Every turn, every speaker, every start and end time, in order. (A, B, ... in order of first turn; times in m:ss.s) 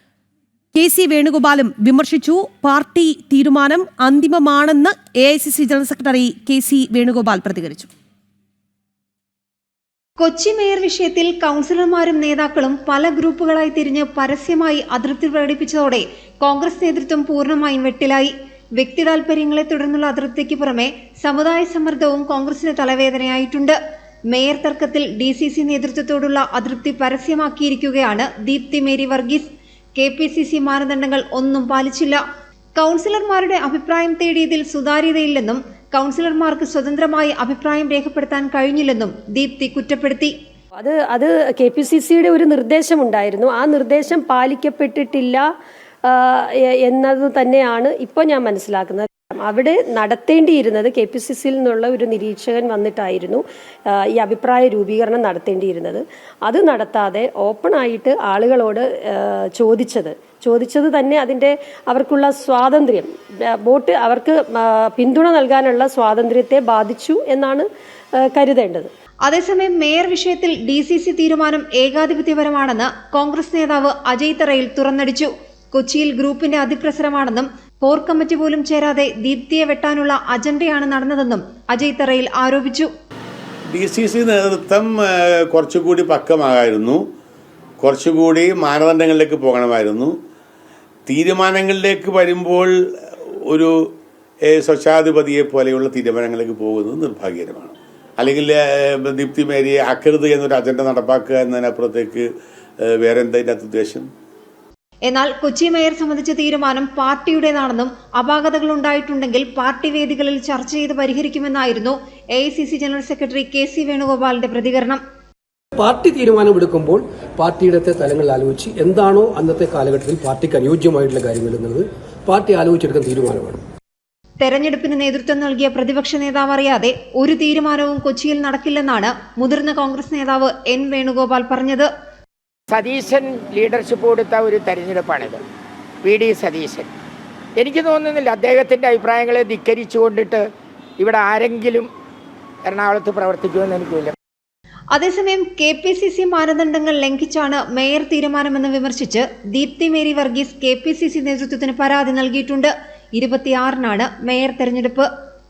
0:00.8-0:07.9 A
0:10.2-0:23.8 B
0:24.3-0:32.2 B
0:32.8-0:40.3 B
0:40.8-0:45.4 C
0:46.1-1:07.7 C
1:08.2-1:08.9 C
1:09.2-1:22.9 B
1:23.7-1:27.0 D
1:27.8-1:30.2 D
1:31.1-1:32.7 D
1:34.5-1:42.3 D
1:42.9-1:44.1 D
1:45.1-1:55.0 B
1:55.8-2:03.6 E
2:04.4-2:11.9 B
2:12.7-2:15.4 F
2:16.0-2:16.9 F
2:17.6-2:20.4 F
2:21.0-2:21.9 F
2:22.7-2:24.1 F
2:24.9-2:35.1 B